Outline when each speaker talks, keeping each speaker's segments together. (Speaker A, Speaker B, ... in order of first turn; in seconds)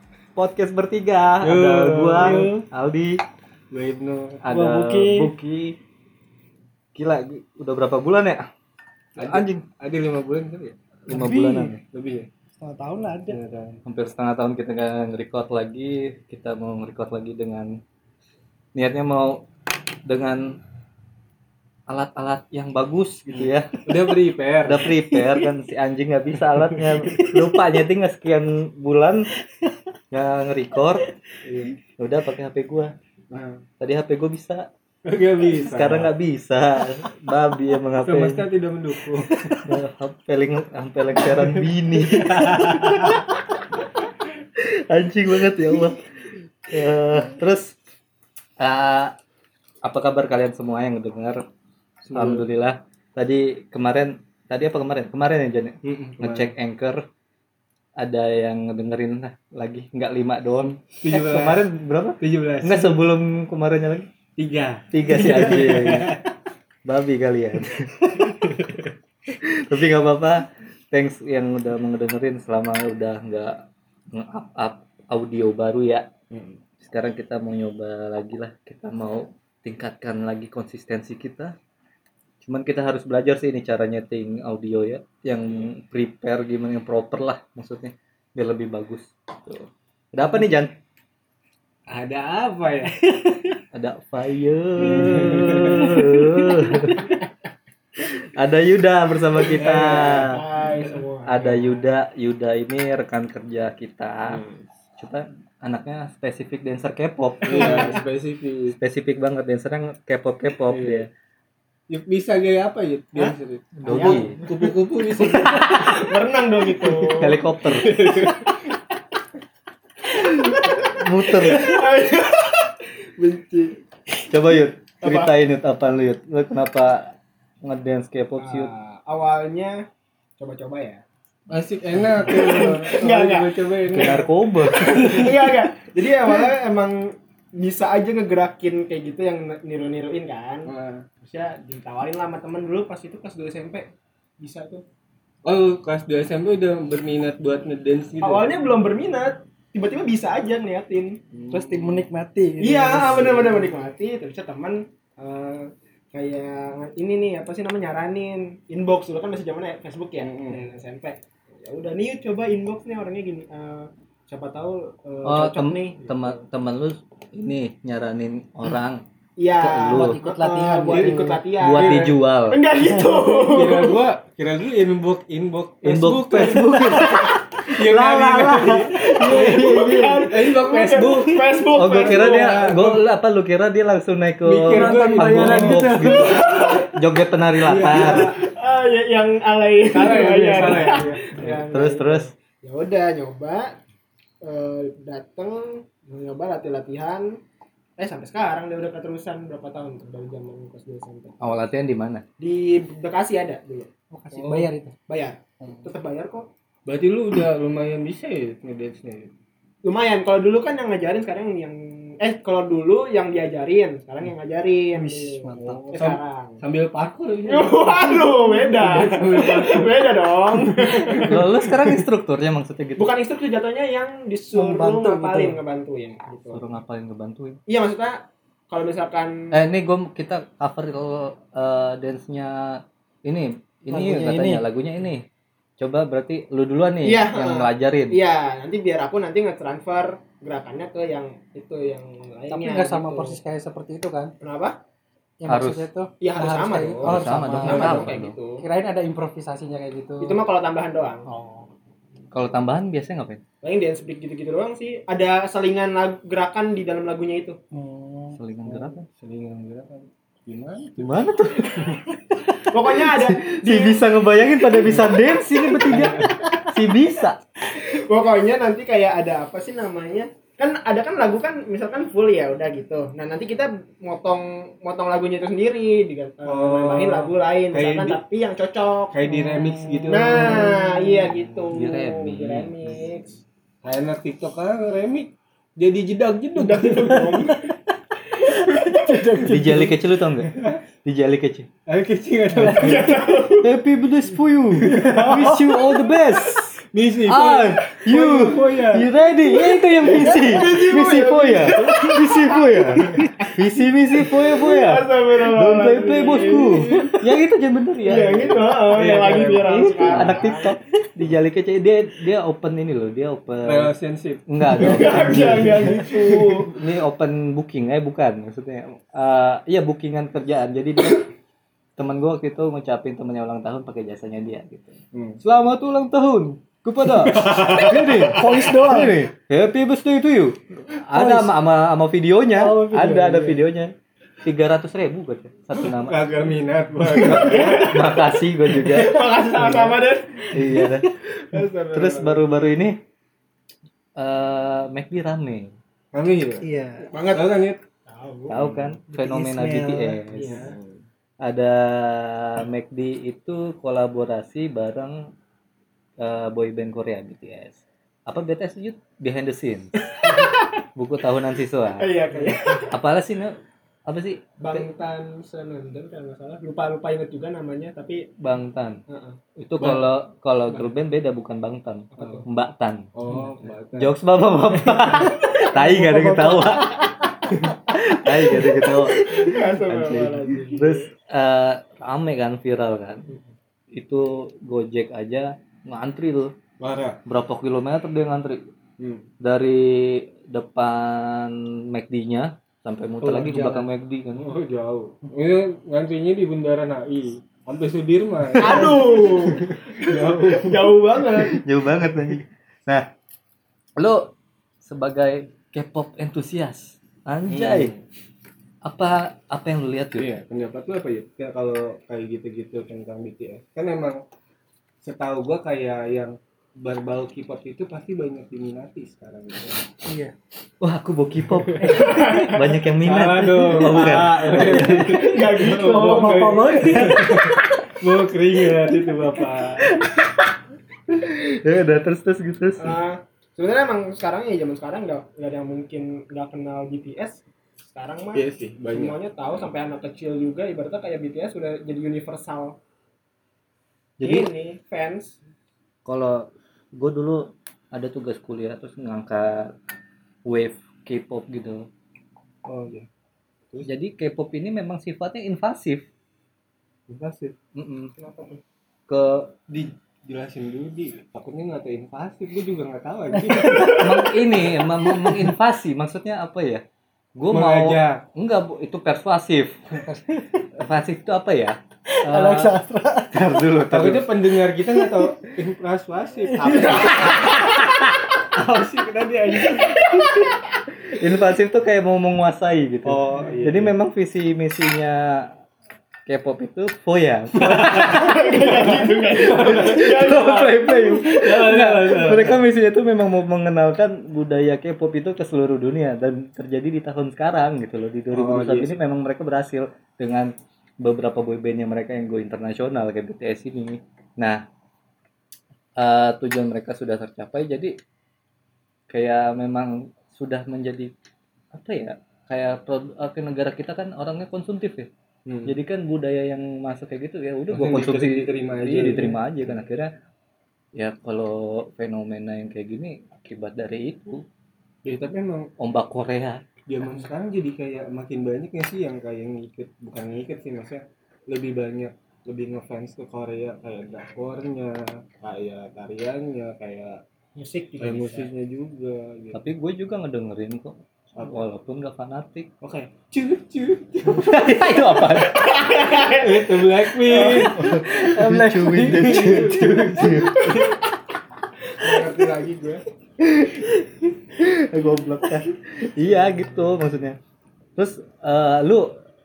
Speaker A: 0.4-3.2, 4.4-5.8, 6.9-8.5, 9.2-9.6, 11.1-11.8, 13.9-17.8, 18.8-19.5, 20.1-20.6, 21.9-23.9, 24.6-29.3, 30.1-31.1, 32.0-32.9, 33.8-34.7, 35.6-38.5, 39.7-43.6, 44.6-46.0, 46.6-47.8, 48.6-49.1, 49.8-51.4, 52.1-57.0, 58.0-64.1, 64.9-66.2, 66.8-68.4, 69.3-76.1, 76.8-81.5, 82.4-90.7, 93.7-97.1, 98.2-100.4, 101.3-104.4, 105.0-108.0, 108.8-111.1, 113.8-114.5, 115.4-115.9, 117.2-118.1, 120.2-121.8, 124.3-128.7, 133.9-135.3, 165.2-169.0, 169.6-170.2, 170.9-172.6, 175.8-180.3, 181.7-188.3, 191.4-192.3, 201.4-202.2, 221.3-223.1, 226.5-227.6, 229.5-235.2, 235.8-238.2, 245.5-245.9, 247.0-248.3, 252.3-253.4, 258.3-259.1, 261.0-262.0, 262.9-267.4, 281.7-283.0, 289.4-291.7, 293.6-308.8, 309.7-313.9, 314.5-321.3, 322.0-333.9, 334.4-336.2, 337.2-339.9, 340.5-341.1, 341.9-343.0, 344.2-345.7, 348.5-350.6, 351.4-355.2, 356.2-360.4, 360.9-362.2, 362.9-363.6, 364.1-364.8, 368.4-369.0, 369.6-373.1, 373.9-377.0, 377.8-383.3, 383.9-386.5, 387.2-388.6, 389.4-394.5, 401.4-403.1, 404.0-404.3, 404.8-407.9, 408.8-410.3, 420.8-425.3, 431.1-432.9, 444.2-444.5, 446.0-449.7, 450.4-451.9, 453.8-456.1, 457.7-458.1, 459.1-459.5, 463.9-466.8, 467.4-469.7, 470.8-472.8, 473.3-474.3, 481.1-485.5, 486.2-504.6, 506.0-507.9, 509.1-511.1, 511.7-515.1, 515.7-520.1, 521.0-524.4, 525.8-526.6, 539.5-542.7, 544.3-545.9, 547.4-550.7, 553.4-553.9, 554.6-557.4, 558.0-559.2
Speaker B: 1.4-2.5, 3.7-4.4, 9.2-10.8, 11.9-12.3, 13.3-13.8, 23.3-25.0, 31.4-31.8, 33.3-33.6, 35.0-36.1, 38.0-39.6, 42.0-43.2, 52.0-52.5, 55.8-56.5, 61.0-61.6, 62.2-63.0, 64.4-66.2, 68.4-68.8, 76.3-76.6, 91.9-93.0, 94.8-96.0, 99.6-100.1, 104.3-104.6, 107.4-108.8, 110.7-111.1, 111.9-116.0, 116.8-117.1, 117.7-118.5, 131.5-135.3, 140.7-141.1, 145.4-148.5, 151.3-152.1, 153.1-153.7, 160.2-160.6, 171.7-172.1, 173.5-177.0, 177.7-179.4, 180.3-183.0, 184.4-186.2, 187.6-188.3, 189.9-191.6, 206.8-209.3, 215.9-220.1, 247.7-248.0, 258.7-261.2, 265.8-266.3, 276.5-278.2, 279.1-280.7, 283.8-287.3, 290.4-290.8, 291.9-293.1, 294.8-295.6, 296.9-299.1, 306.6-307.2, 308.9-310.3, 313.6-316.4, 325.1-325.4, 327.3-327.9, 335.8-337.8, 346.1-346.7, 347.3-347.8, 348.5-348.9, 350.6-351.0, 369.8-370.0, 373.1-374.1, 386.8-387.2, 389.0-389.2, 393.2-401.0, 407.5-408.0, 410.1-414.2, 415.0-419.8, 421.5-421.9, 423.0-430.0, 438.3-439.1, 452.6-453.1, 457.1-457.5, 459.7-464.1, 467.5-468.2, 473.9-477.6, 478.5-480.0, 483.0-483.9, 487.6-488.0, 489.7-489.9, 491.1-492.6, 498.3-499.0, 515.5-515.8, 517.7-519.4, 525.0-525.7, 526.9-537.2, 538.0-539.6, 541.4-541.6, 542.8-544.5, 546.2-548.0, 548.9-551.0, 552.0-553.0
Speaker C: 2.2-2.6, 4.5-5.3, 11.1-11.8, 12.6-13.4, 39.3-39.6, 93.1-93.6, 151.5-153.5, 169.9-171.5, 179.4-179.6, 184.7-186.7, 190.0-191.0, 204.1-204.9, 214.9-215.9, 224.5-225.6, 233.9-234.6, 242.5-244.3, 245.4-250.4, 251.3-251.7, 257.7-258.4, 279.2-281.2, 287.1-287.8, 288.4-289.9, 292.6-293.1, 294.8-295.8, 303.2-303.5, 327.8-329.2, 331.1-331.5, 332.5-333.6, 346.6-347.1, 349.1-350.2, 375.5-376.8, 420.0-420.3, 421.8-422.6, 424.8-427.6, 463.3-464.3, 470.1-470.6, 472.1-473.4, 475.0-475.3, 476.5-477.6, 547.3-550.6
Speaker D: 99.4-101.8, 113.8-114.4, 115.6-117.4, 120.1-123.8, 125.0-125.3, 128.4-129.8, 130.4-131.0, 132.2-133.6, 135.0-140.7, 141.2-144.8, 148.2-151.2, 152.6-166.4, 169.4-174.0, 178.9-182.9, 186.2-186.9, 187.9-193.8, 194.4-197.4, 198.0-201.4, 202.4-206.5, 209.8-216.6, 217.5-221.6, 223.0-226.7, 227.7-229.4, 237.0-243.4, 244.4-244.8, 246.2-248.6, 250.2-251.3, 253.6-257.6, 262.7-264.0, 267.7-279.1, 280.1-283.4, 286.6-287.6, 288.6-289.0, 292.6-293.7, 300.0-303.5, 304.2-307.0, 308.0-310.7, 314.7-316.7, 337.2-340.5, 341.3-342.4, 347.0-348.6, 350.3-350.7, 360.2-360.7, 362.0-362.9, 364.6-368.3, 369.1-369.4, 372.1-372.4, 379.2-381.1, 398.6-401.6, 421.9-422.7, 425.0-427.5, 432.8-442.8, 444.2-445.4, 458.2-458.6, 480.0-480.5, 487.9-490.9, 537.6-538.5, 545.5-546.7